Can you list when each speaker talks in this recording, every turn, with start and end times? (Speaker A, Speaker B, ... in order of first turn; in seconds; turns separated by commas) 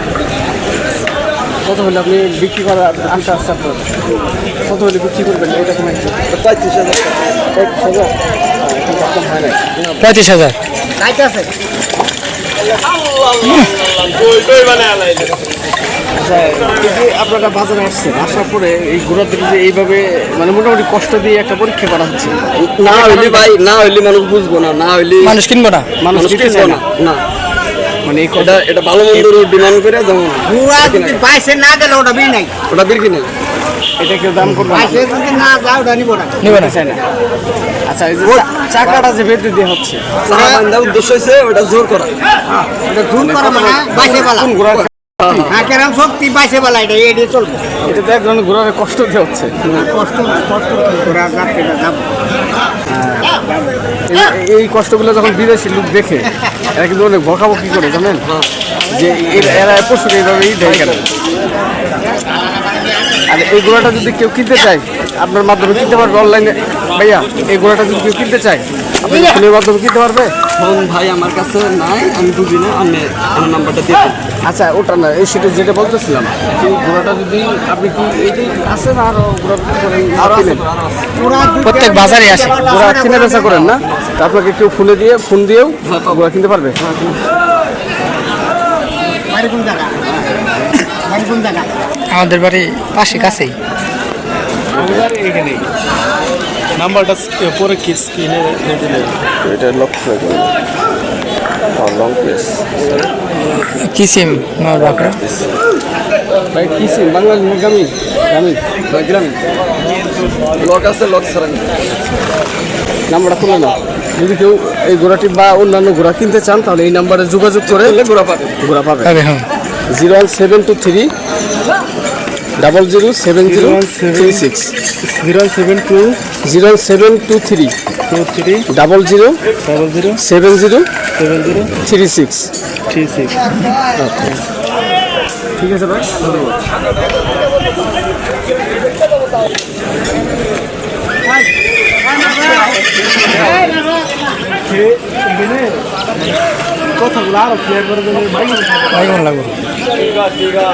Speaker A: 1.6-3.9, Speaker A: 4.6-6.2, Speaker B: 6.3-7.3, Speaker A: 7.5-9.6, Speaker C: 10.0-10.6, Speaker D: 11.0-11.5, Speaker B: 13.0-15.3, Speaker C: 13.4-13.7, Speaker A: 16.1-23.5, Speaker B: 22.6-25.4, Speaker C: 25.2-25.9, Speaker A: 26.0-26.8, Speaker B: 26.1-27.2, Speaker A: 28.0-28.6, Speaker B: 28.4-31.2, Speaker D: 30.4-32.5, Speaker B: 32.7-33.3, Speaker A: 34.0-35.1, Speaker D: 34.7-36.5, Speaker C: 36.4-36.7, Speaker A: 36.4-37.0, Speaker A: 37.9-40.1, Speaker B: 40.2-42.1, Speaker D: 40.3-40.6, Speaker D: 42.8-44.5, Speaker A: 43.1-45.5, Speaker B: 44.7-45.6, Speaker D: 45.5-47.6, Speaker A: 47.8-49.5, Speaker B: 49.6-49.9, Speaker D: 49.8-52.0, Speaker A: 52.9-53.3, Speaker A: 54.1-58.2, Speaker A: 58.9-61.0, Speaker B: 60.7-61.0, Speaker A: 63.3-70.3, Speaker B: 70.6-74.2, Speaker A: 74.4-80.6, Speaker B: 80.2-81.1, Speaker D: 81.2-83.6, Speaker C: 81.6-82.5, Speaker A: 82.6-86.8, Speaker B: 83.5-84.1, Speaker B: 85.8-86.2, Speaker B: 86.8-87.2, Speaker D: 89.3-90.0, Speaker D: 90.9-91.7, Speaker C: 92.1-93.5, Speaker E: 94.8-95.7, Speaker E: 96.8-99.2, Speaker B: 99.5-100.4, Speaker B: 101.8-102.8, Speaker C: 103.8-105.2, Speaker A: 106.5-108.6, Speaker B: 108.9-109.4, Speaker B: 110.6-111.8, Speaker A: 113.1-118.0, Speaker B: 117.7-118.6, Speaker A: 118.6-119.2, Speaker C: 119.0-119.4, Speaker A: 119.9-121.1, Speaker A: 122.6-124.7, Speaker E: 123.4-124.4, Speaker E: 125.0-126.2, Speaker A: 126.4-127.7, Speaker E: 128.1-128.7, Speaker A: 128.7-129.4, Speaker E: 129.6-130.2, Speaker A: 130.2-130.9, Speaker E: 131.2-131.7, Speaker A: 131.8-132.5, Speaker E: 132.9-133.5, Speaker A: 134.0-134.4, Speaker A: 135.6-136.6, Speaker D: 142.3-142.6, Speaker E: 144.6-145.8, Speaker E: 147.0-149.1, Speaker C: 148.9-149.5